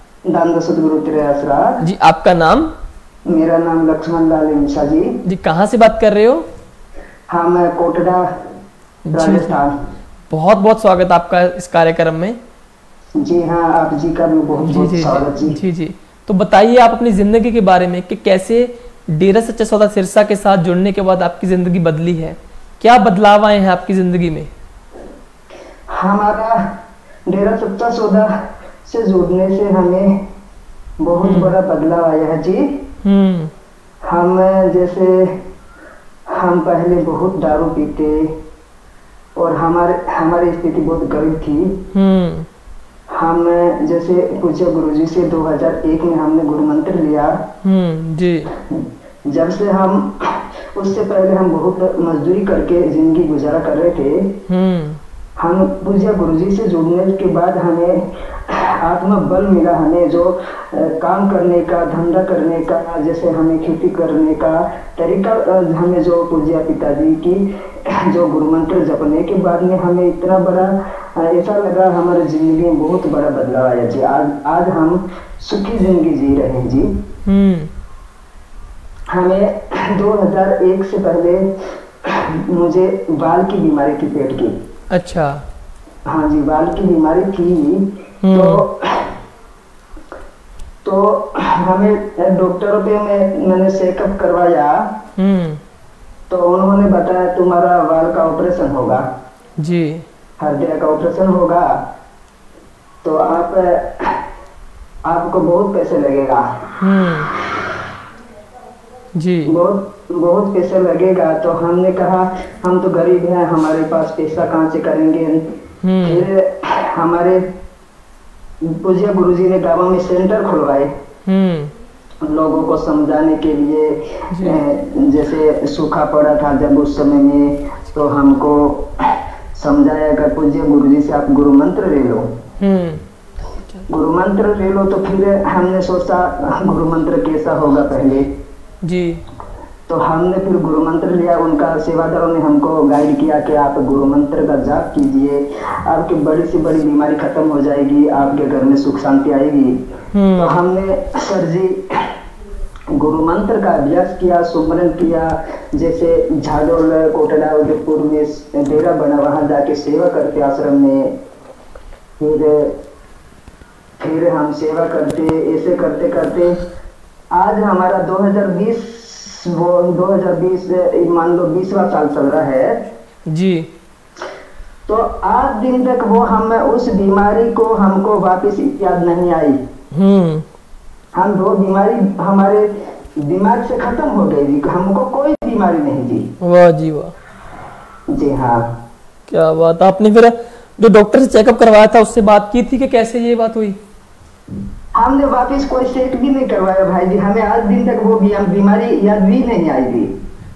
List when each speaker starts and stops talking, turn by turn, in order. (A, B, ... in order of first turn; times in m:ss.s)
0:00.3-0:01.8 A
0:01.8-0:02.7 B
0:03.3-0:05.1 A
0:05.2-0:06.4 B
0:07.3-0:08.2 A
0:09.1-0:09.6 B
0:09.1-0:09.7 A
0:10.3-0:12.4 B
0:13.2-0:15.6 A
0:14.6-0:24.5 B
0:25.9-0:26.6 A
0:27.3-0:28.3 A
0:28.8-0:30.1 A
0:31.0-0:32.7 A
0:31.2-0:31.6 B
0:33.0-0:33.5 B
0:34.0-0:35.3 A
0:36.3-0:38.3 A
0:39.4-0:41.8 A
0:41.9-0:42.5 B
0:43.1-0:47.4 A
0:47.6-0:48.5 B
0:48.6-0:54.3 A
0:54.5-0:55.0 B
0:55.4-1:16.9 A
1:17.3-1:17.7 B
1:19.1-1:21.4 A
1:22.0-1:24.6 A
1:24.9-1:25.4 B
1:26.1-1:29.1 A
1:28.2-1:28.6 B
1:30.8-1:34.9 A
1:35.2-1:35.6 B
1:36.3-1:39.1 A
1:39.6-1:40.0 B
1:40.4-1:41.8 A
1:43.0-1:44.2 A
1:45.0-1:46.4 A
1:46.8-1:47.3 B
1:49.2-1:49.5 B
1:49.5-1:55.4 A
1:55.8-1:56.3 B
1:56.0-1:57.4 A
1:58.6-2:00.9 A
2:01.3-2:01.7 B
2:02.2-2:12.3 A
2:04.3-2:04.6 B
2:12.6-2:13.0 B
2:13.9-2:18.3 A
2:18.8-2:19.2 B
2:19.9-2:29.8 A
2:30.1-2:30.6 B
2:30.4-2:32.0 A
2:33.0-2:41.1 A
2:42.2-2:42.7 A
2:44.0-2:46.6 A
2:47.3-2:52.8 A
2:53.3-2:53.7 B
2:54.9-2:59.6 A
2:59.9-3:00.4 B
3:01.2-3:02.7 A
3:03.2-3:06.2 A
3:06.4-3:07.1 B
3:08.1-3:08.6 A
3:09.3-3:13.8 B
3:15.0-3:20.1 A